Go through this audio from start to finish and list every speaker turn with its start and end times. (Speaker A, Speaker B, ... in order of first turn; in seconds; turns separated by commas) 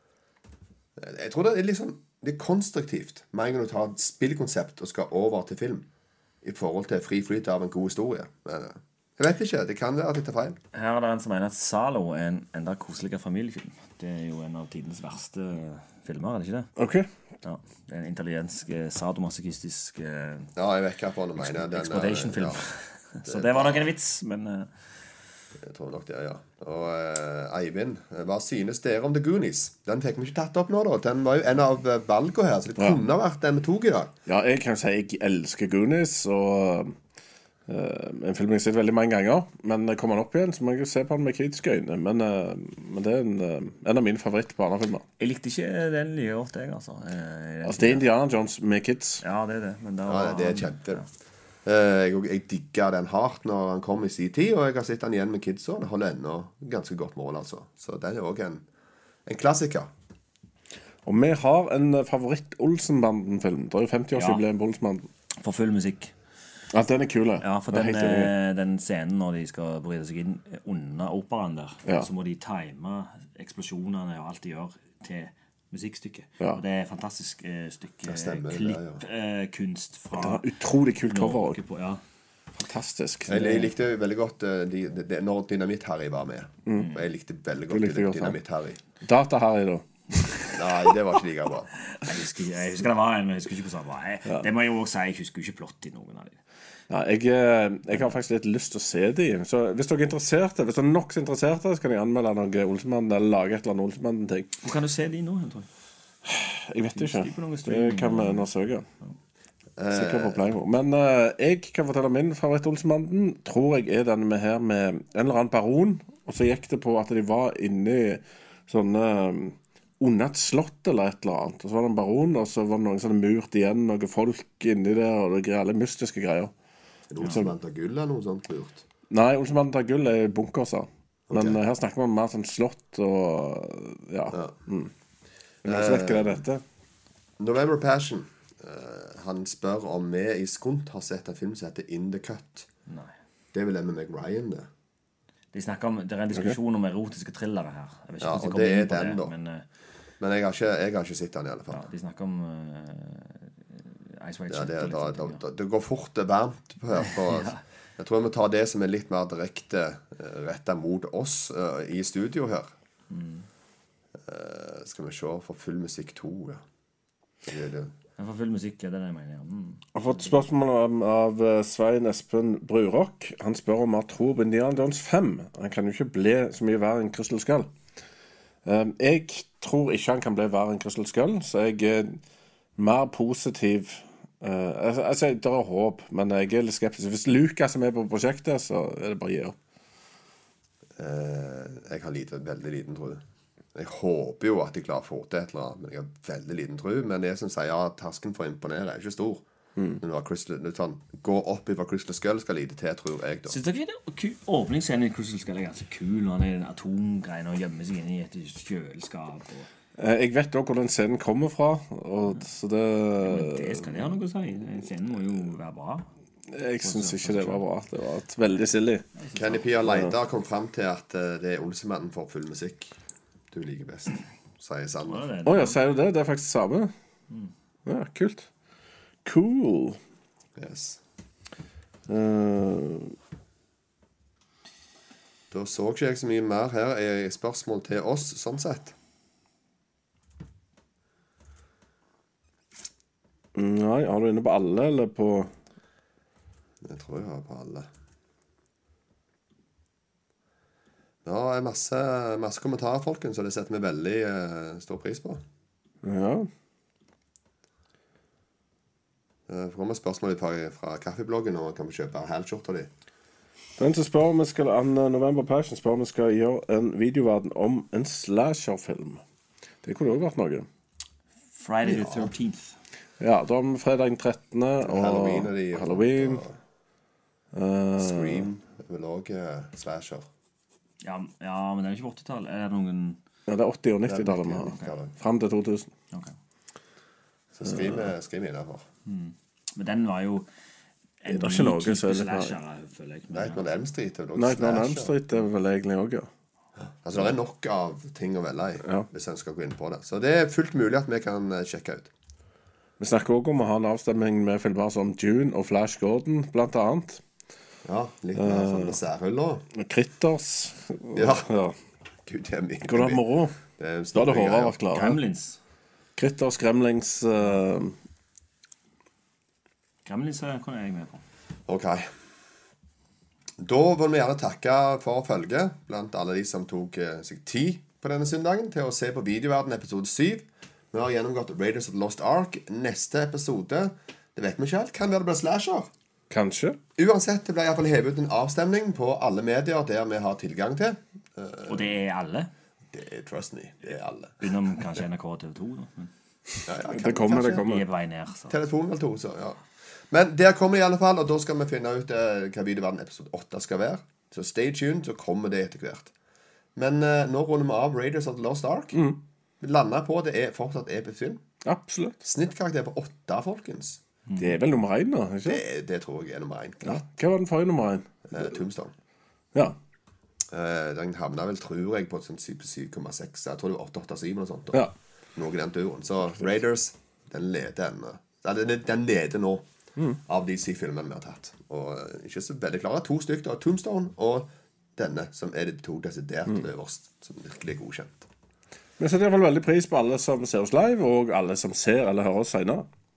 Speaker A: 1.0-5.9, Speaker A: 6.4-10.6, Speaker B: 10.7-16.7, Speaker C: 16.8-17.1, Speaker B: 17.4-20.5, Speaker A: 20.6-22.6, Speaker B: 21.4-24.9, Speaker A: 23.2-23.9, Speaker A: 25.6-34.1, Speaker C: 34.3-37.0, Speaker C: 37.7-45.0, Speaker B: 45.2-48.0, Speaker C: 47.6-49.2, Speaker B: 49.2-51.0, Speaker A: 50.1-51.0, Speaker A: 51.6-58.6, Speaker A: 59.2-59.9, Speaker C: 61.0-65.1, Speaker B: 64.1-64.4, Speaker B: 65.4-66.1, Speaker C: 66.7-68.3, Speaker B: 67.4-80.5, Speaker A: 78.1-79.0, Speaker C: 80.2-81.6, Speaker B: 81.1-82.0, Speaker C: 82.6-83.7, Speaker A: 83.3-88.8, Speaker C: 87.7-88.4, Speaker C: 89.0-89.8, Speaker B: 90.3-90.5, Speaker A: 90.5-91.7, Speaker B: 91.9-96.4, Speaker C: 96.9-104.5, Speaker B: 104.6-105.7, Speaker C: 106.2-108.9, Speaker B: 106.9-108.5, Speaker A: 109.8-110.5, Speaker C: 109.9-126.5, Speaker A: 127.1-128.8, Speaker C: 127.2-127.5, Speaker C: 129.1-134.9, Speaker A: 131.3-131.6, Speaker A: 134.3-134.6, Speaker A: 135.6-136.4, Speaker C: 135.6-136.6, Speaker A: 137.4-142.7, Speaker B: 142.9-143.1, Speaker A: 143.5-144.7, Speaker B: 145.5-149.6, Speaker A: 148.2-149.3, Speaker A: 150.2-151.8, Speaker B: 151.7-155.4, Speaker A: 154.5-162.7, Speaker B: 157.0-157.6, Speaker B: 163.1-163.5, Speaker A: 164.2-166.6, Speaker A: 167.5-167.9, Speaker B: 168.2-170.4, Speaker C: 169.9-177.7, Speaker C: 178.6-182.2, Speaker C: 182.8-189.5, Speaker A: 191.0-193.2, Speaker A: 193.7-199.4, Speaker A: 200.0-203.6, Speaker B: 203.5-209.7, Speaker C: 210.0-214.0, Speaker B: 213.2-216.0, Speaker C: 216.5-219.0, Speaker B: 216.8-217.6, Speaker B: 219.1-219.7, Speaker A: 219.3-222.9, Speaker C: 219.9-220.1, Speaker A: 223.5-225.2, Speaker B: 225.0-225.8, Speaker C: 225.4-226.9, Speaker C: 227.8-228.5, Speaker C: 229.2-230.0, Speaker A: 230.6-231.0, Speaker C: 232.1-233.1, Speaker A: 235.5-238.9, Speaker C: 243.5-245.5, Speaker A: 246.8-247.9, Speaker A: 251.2-255.4, Speaker C: 256.0-256.5, Speaker A: 259.5-262.9, Speaker C: 263.8-269.2, Speaker C: 269.8-270.7, Speaker B: 271.6-272.8, Speaker A: 271.8-272.3, Speaker C: 273.2-276.4, Speaker A: 274.8-276.6, Speaker C: 277.5-278.5, Speaker A: 278.0-280.2, Speaker B: 281.0-283.2, Speaker C: 283.5-285.9, Speaker A: 284.1-285.1, Speaker A: 287.5-288.8, Speaker B: 289.1-290.5, Speaker B: 291.2-293.6, Speaker C: 291.3-292.5, Speaker A: 293.3-295.2, Speaker C: 294.4-296.3, Speaker A: 296.8-302.1, Speaker C: 303.0-307.2, Speaker A: 307.8-309.6, Speaker C: 308.4-308.9, Speaker C: 309.7-311.8, Speaker A: 311.1-311.5, Speaker A: 312.2-314.8, Speaker C: 312.8-313.5, Speaker C: 314.1-315.2, Speaker B: 314.9-315.6, Speaker C: 316.1-317.9, Speaker B: 320.1-321.2, Speaker A: 321.7-322.1, Speaker A: 323.6-335.9, Speaker C: 336.3-336.8, Speaker A: 337.0-341.8, Speaker B: 341.6-342.5, Speaker A: 342.9-344.4, Speaker B: 344.4-346.1, Speaker A: 346.6-347.7, Speaker C: 346.9-347.8, Speaker B: 347.4-348.5, Speaker A: 348.5-356.1, Speaker A: 356.8-359.0, Speaker C: 358.9-359.2, Speaker A: 359.6-361.4, Speaker C: 361.6-362.2, Speaker A: 362.2-364.0, Speaker C: 364.4-365.6, Speaker A: 365.4-367.0, Speaker C: 366.8-368.3, Speaker A: 368.3-368.9, Speaker A: 370.5-374.8, Speaker A: 375.4-379.6, Speaker A: 380.3-388.3, Speaker C: 389.0-392.9